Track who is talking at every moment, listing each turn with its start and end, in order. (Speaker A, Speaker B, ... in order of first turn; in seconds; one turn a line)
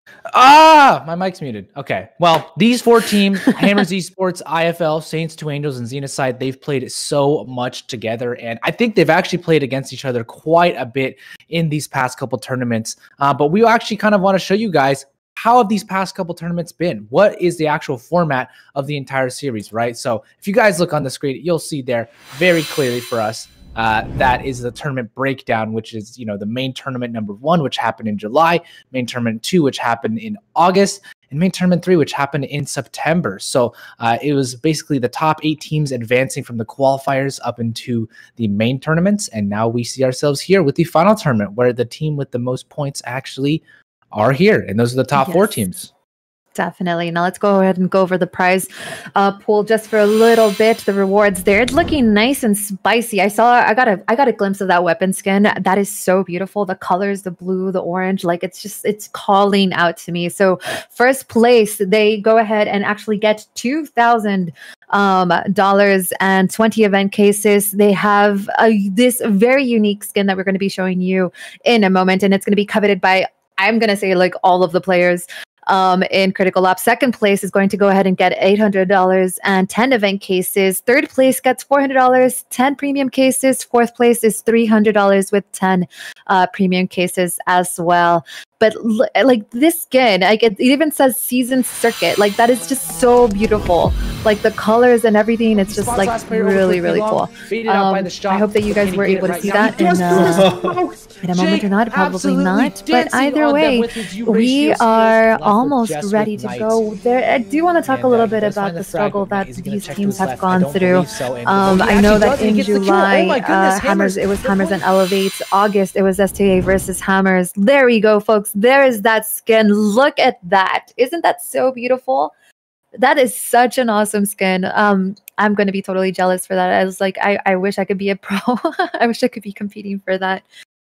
Speaker A: 0.3-45.9
Speaker B: 45.1-45.6
Speaker B: 46.5-100.6
Speaker A: 95.5-106.8
Speaker B: 101.2-122.3
Speaker A: 107.9-114.8
Speaker B: 123.0-130.4